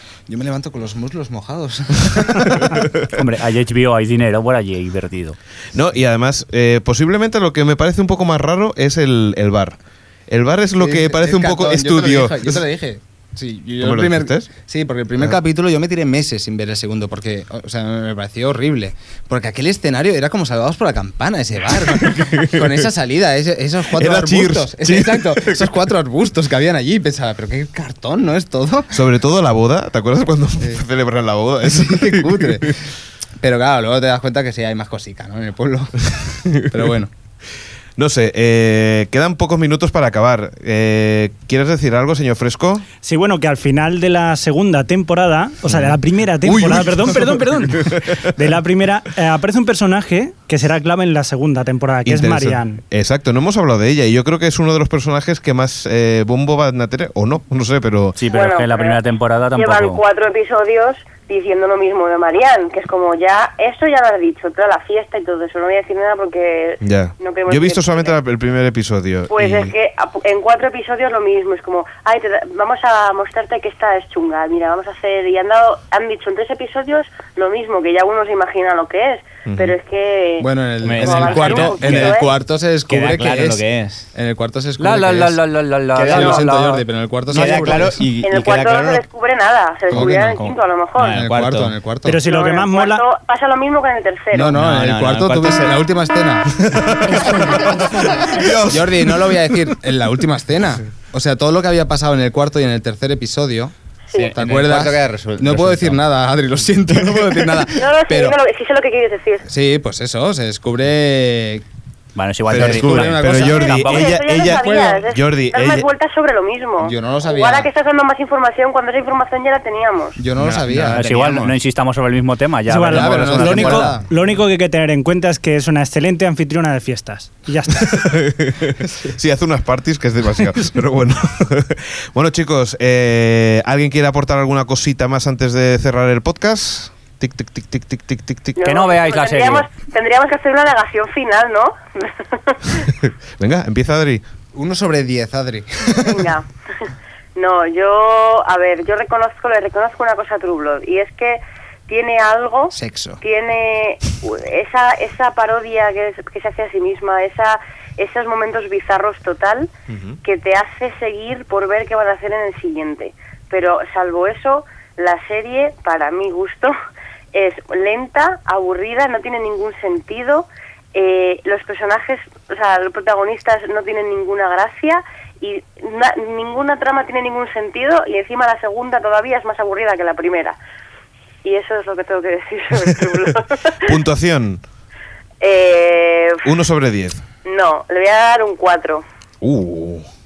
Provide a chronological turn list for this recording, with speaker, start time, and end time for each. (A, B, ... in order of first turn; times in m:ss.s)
0:00.3-0:02.8 A
0:03.1-0:05.4 B
0:05.7-0:09.8 C
0:10.3-0:12.6 C
0:10.8-0:29.0 A
0:13.8-0:14.5 C
0:23.9-0:25.7 C
0:28.9-0:32.6 C
0:30.6-0:30.8 A
0:31.6-0:32.8 A
0:33.4-0:37.1 A
0:38.0-0:42.8 C
0:43.0-0:52.8 D
0:45.7-0:47.9 C
0:52.0-0:58.2 C
0:58.2-1:00.0 B
0:58.3-0:59.0 E
0:59.5-1:08.2 E
1:06.8-1:09.7 C
1:09.3-1:22.3 E
1:19.4-1:19.7 C
1:20.4-1:25.4 A
1:20.8-1:21.3 F
1:21.2-1:21.9 B
1:21.8-1:22.1 F
1:22.9-1:24.0 F
1:24.8-1:26.8 B
1:25.9-1:28.0 A
1:26.0-1:26.4 F
1:27.3-1:29.0 F
1:27.5-1:28.0 B
1:28.2-1:31.2 E
1:29.9-1:32.2 A
1:31.0-1:31.7 F
1:32.0-1:33.0 D
1:32.2-1:34.5 E
1:34.3-1:37.7 A
1:34.5-1:35.8 F
1:36.5-1:39.4 C
1:37.7-1:38.2 F
1:38.4-1:48.4 A
1:44.1-1:44.3 E
1:44.2-1:46.0 F
1:47.7-1:49.4 E
1:49.4-1:51.6 A
1:52.1-1:54.2 B
1:52.5-1:55.0 A
1:52.5-1:55.9 C
1:53.8-2:00.2 E
1:56.8-1:57.7 A
2:00.2-2:01.5 A
2:00.4-2:01.5 F
2:00.9-2:03.9 B
2:02.7-2:08.2 D
2:02.9-2:04.1 A
2:07.9-2:18.6 C
2:18.6-2:22.9 E
2:18.6-2:19.7 B
2:23.4-2:24.2 C
2:24.5-2:26.3 A
2:26.0-2:26.5 E
2:27.4-2:39.7 E
2:32.7-2:33.2 A
2:39.9-2:40.2 C
2:40.2-2:46.7 E
2:47.3-3:00.6 E
3:01.4-3:03.9 E
3:03.8-3:04.6 C
3:05.4-3:06.4 E
3:06.4-3:07.2 C
3:07.4-3:09.0 E
3:09.4-3:10.0 C